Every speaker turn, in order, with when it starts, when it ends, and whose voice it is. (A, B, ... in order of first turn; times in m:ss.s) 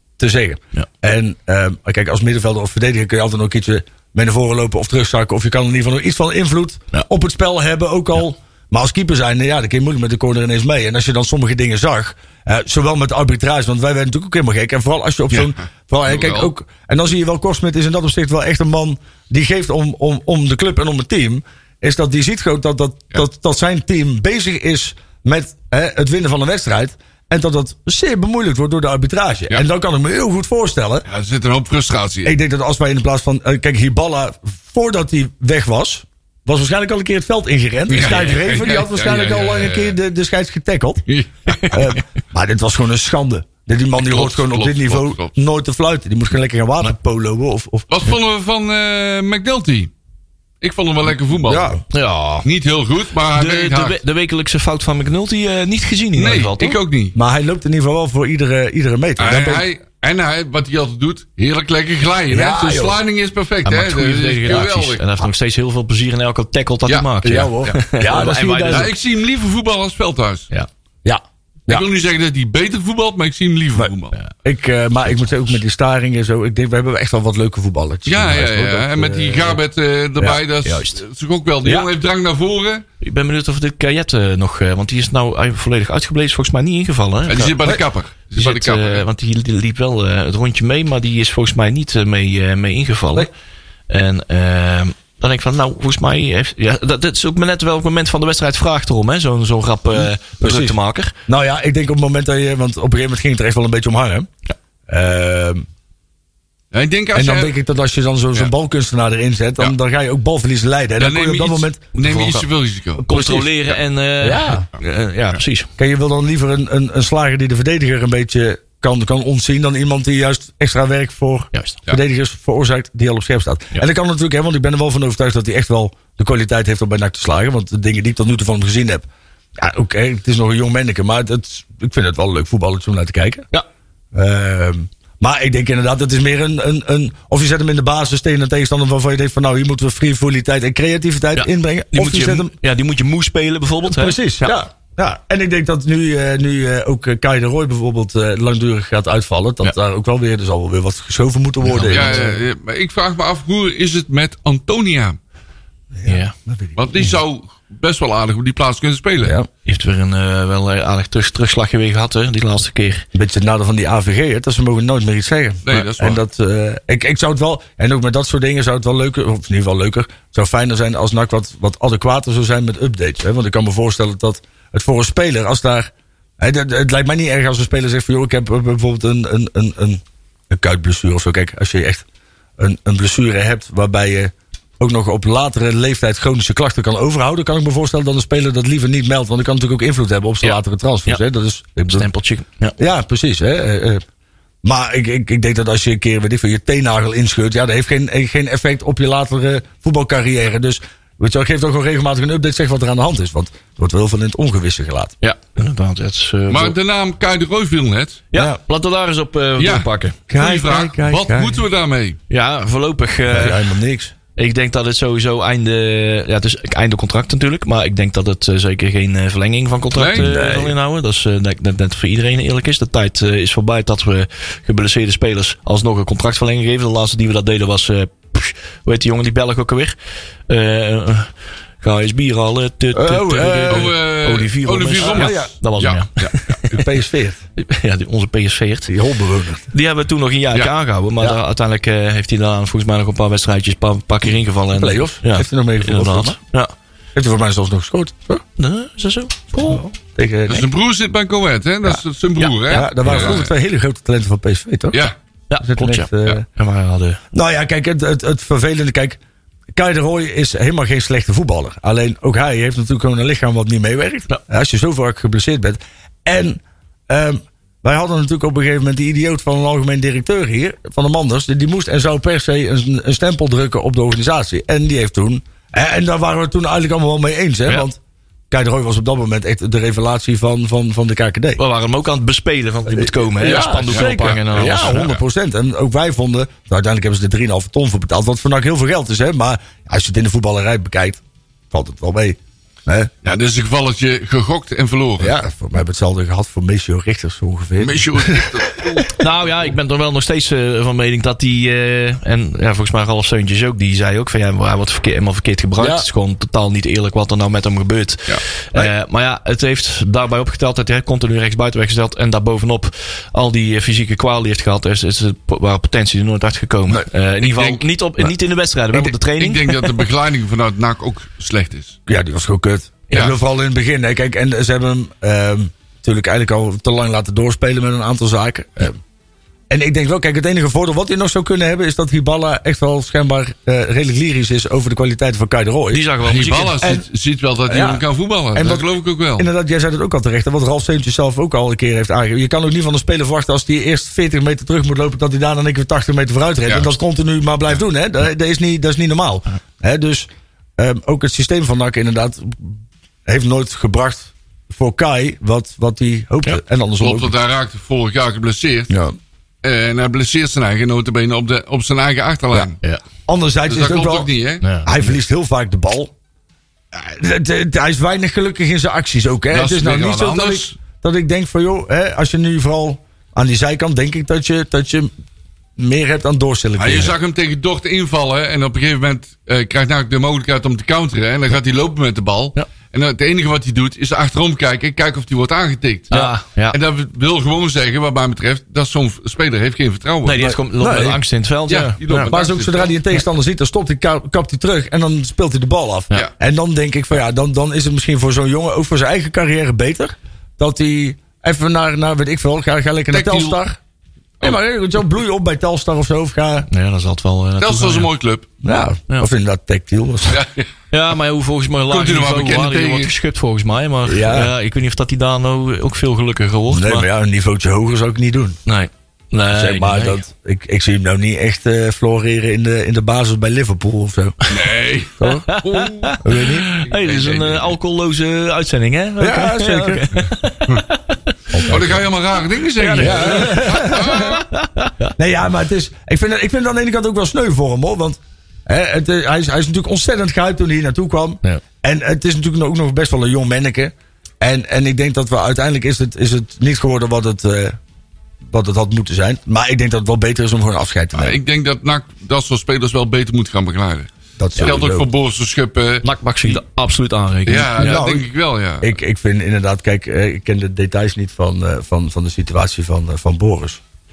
0:00.2-0:31.1 A
0:16.1-0:16.5 B
0:31.1-0:32.3 B
0:32.2-0:41.0 A
0:37.9-0:40.0 B
0:41.1-0:42.0 B
0:41.7-0:47.9 A
0:44.0-0:45.4 B
0:47.9-0:49.9 B
0:50.6-0:51.8 B
0:51.4-0:51.8 A
0:51.9-0:52.5 C
0:52.4-0:54.0 B
0:53.3-0:56.8 C
0:56.2-0:57.1 B
0:57.2-0:59.6 A
0:59.2-1:05.0 B
1:02.3-1:03.0 A
1:03.6-1:08.9 C
1:07.2-1:08.9 A
1:08.7-1:10.5 B
1:11.0-1:11.9 A
1:11.7-1:14.2 B
1:14.4-1:19.6 A
1:18.1-1:22.8 B
1:20.6-1:21.0 C
1:23.0-1:27.6 C
1:27.3-1:29.0 B
1:28.4-1:33.3 C
1:33.9-1:41.2 C
1:39.9-1:44.3 A
1:44.9-1:45.7 A
1:46.7-1:47.5 B
1:47.2-1:51.8 A
1:51.0-1:53.4 B
1:52.0-1:52.5 C
1:53.0-1:55.7 C
1:53.1-1:53.5 A
1:54.2-1:54.7 A
1:55.8-2:13.5 A
2:14.1-2:22.5 A
2:21.4-2:24.6 C
2:23.9-2:32.3 A
2:31.7-2:32.3 C
2:31.8-2:35.2 B
2:35.9-2:37.2 A
2:36.0-2:36.3 C
2:36.8-2:39.4 B
2:39.6-2:43.1 C
2:43.1-3:02.0 A
2:45.7-2:46.2 B
3:02.6-3:12.1 A
3:11.9-3:12.8 C
3:12.8-3:14.0 A
3:14.6-3:25.1 A
3:25.2-3:26.8 C
3:26.5-3:28.2 B
3:28.3-3:30.2 C
3:29.6-3:32.2 B
3:30.3-3:31.6 A
3:32.3-3:33.7 C
3:33.3-3:34.1 A
3:34.4-3:50.0 C
3:40.0-3:40.3 B
3:40.2-3:40.8 A
3:50.5-3:56.8 C
3:52.9-3:54.0 A
3:53.7-3:56.6 B
3:55.0-3:55.5 A
3:56.7-3:57.4 A
3:57.6-3:59.0 C
3:58.9-3:59.7 A
3:59.7-4:06.7 C
4:04.7-4:06.4 A
4:07.2-4:08.4 A
4:08.6-4:09.9 C
4:09.6-4:10.7 A
4:10.5-4:13.5 B
4:12.4-4:13.4 C
4:12.7-4:15.1 A
4:15.5-4:17.2 C
4:15.6-4:16.4 A
4:17.3-4:19.2 A
4:19.7-4:38.0 A
4:38.5-4:41.6 A
4:41.6-4:45.1 C
4:42.9-4:53.1 A
4:43.4-4:45.2 B
4:53.2-4:55.4 B
4:55.2-4:59.1 A
4:57.8-4:59.4 B
4:59.2-5:19.9 C
5:05.8-5:06.1 A
5:17.4-5:17.8 B
5:19.1-5:22.0 B
5:22.1-5:29.0 A
5:23.1-5:23.4 B
5:29.7-5:36.0 A
5:35.9-5:36.9 C
5:36.3-5:39.5 B
5:37.7-5:38.0 A
5:38.6-5:57.3 A
5:46.7-5:46.9 B
5:57.0-5:58.9 B
5:58.9-5:59.2 A
5:59.6-6:02.8 B
6:03.3-6:04.3 A
6:03.7-6:04.6 B
6:04.6-6:05.0 C
6:04.8-6:06.1 A
6:06.9-6:15.1 A
6:09.5-6:10.7 B
6:15.8-6:17.1 A
6:16.8-6:30.6 B
6:26.1-6:26.8 C
6:30.2-6:32.3 C
6:30.6-6:31.2 A
6:31.7-6:33.0 B
6:32.3-6:43.8 A
6:43.1-6:43.6 B
6:44.4-6:46.7 A
6:46.7-6:48.1 C
6:47.6-6:48.5 B
6:48.6-6:50.4 A
6:50.3-6:50.7 B
6:50.9-6:57.1 C
6:51.9-6:53.1 B
6:54.1-6:54.5 A
6:56.7-6:58.6 A
6:58.7-7:00.2 C
6:59.5-7:04.4 A
7:04.5-7:06.2 B
7:05.2-7:05.5 A
7:05.4-7:11.8 C
7:06.2-7:06.7 A
7:06.8-7:07.8 B
7:09.2-7:10.1 A
7:11.5-7:12.1 A
7:11.7-7:14.4 B
7:12.8-7:14.4 A
7:12.9-7:15.1 C
7:15.2-7:27.8 A
7:28.4-7:31.4 A
7:31.2-7:36.6 B
7:34.4-7:35.1 A
7:36.0-7:38.0 C
7:37.5-7:39.0 B
7:37.8-7:38.3 A
7:38.8-7:43.8 A